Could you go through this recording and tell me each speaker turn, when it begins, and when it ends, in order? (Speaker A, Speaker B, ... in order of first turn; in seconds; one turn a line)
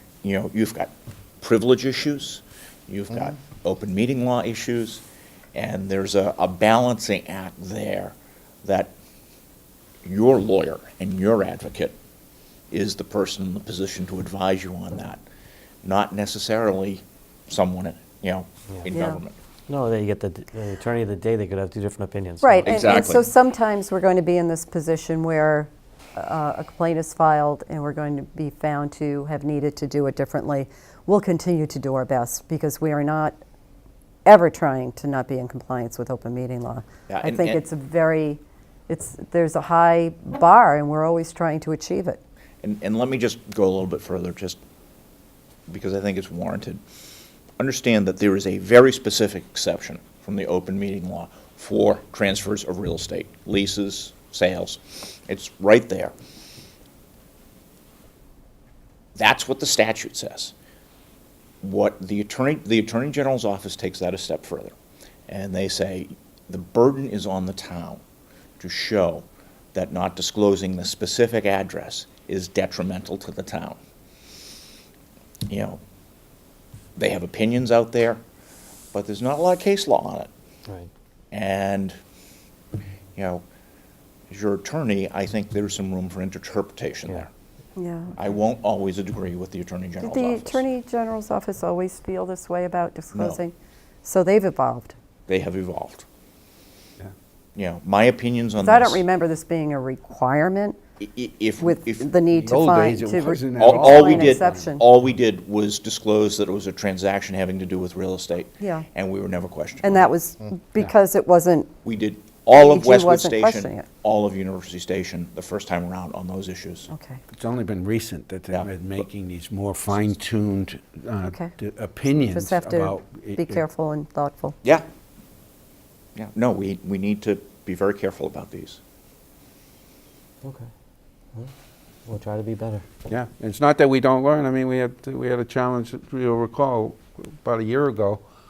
Speaker A: 0.2-5.0
Speaker A: 5.5-8.9
Speaker A: 10.0-11.9
Speaker A: 12.7-15.2
Speaker A: 15.8-19.4
Speaker B: 18.9-19.2
Speaker C: 19.7-23.1
Speaker B: 22.4-33.4
Speaker A: 22.6-23.2
Speaker B: 34.2-42.2
Speaker A: 37.1-37.6
Speaker A: 42.6-44.6
Speaker A: 45.7-46.8
Speaker A: 47.6-56.1
Speaker A: 59.1-60.5
Speaker A: 61.6-64.7
Speaker A: 65.3-68.0
Speaker A: 68.6-73.8
Speaker A: 75.5-75.8
Speaker A: 77.0-78.2
Speaker A: 78.9-80.3
Speaker A: 81.3-82.0
Speaker A: 83.1-83.4
Speaker A: 84.3-87.3
Speaker B: 87.8-88.2
Speaker A: 88.2-90.6
Speaker B: 90.0-95.0
Speaker A: 93.1-93.4
Speaker A: 95.3-96.0
Speaker A: 97.5-99.0
Speaker B: 98.6-100.8
Speaker A: 101.0-102.1
Speaker B: 101.6-104.8
Speaker D: 102.3-104.7
Speaker A: 103.6-110.1
Speaker B: 108.6-108.8
Speaker B: 109.8-111.7
Speaker A: 111.8-116.9
Speaker B: 112.5-113.8
Speaker B: 116.9-117.2
Speaker D: 117.3-123.6
Speaker B: 121.2-121.5
Speaker B: 122.1-124.6
Speaker A: 126.2-128.8
Speaker C: 130.4-130.7
Speaker C: 132.1-132.8
Speaker D: 133.1-138.2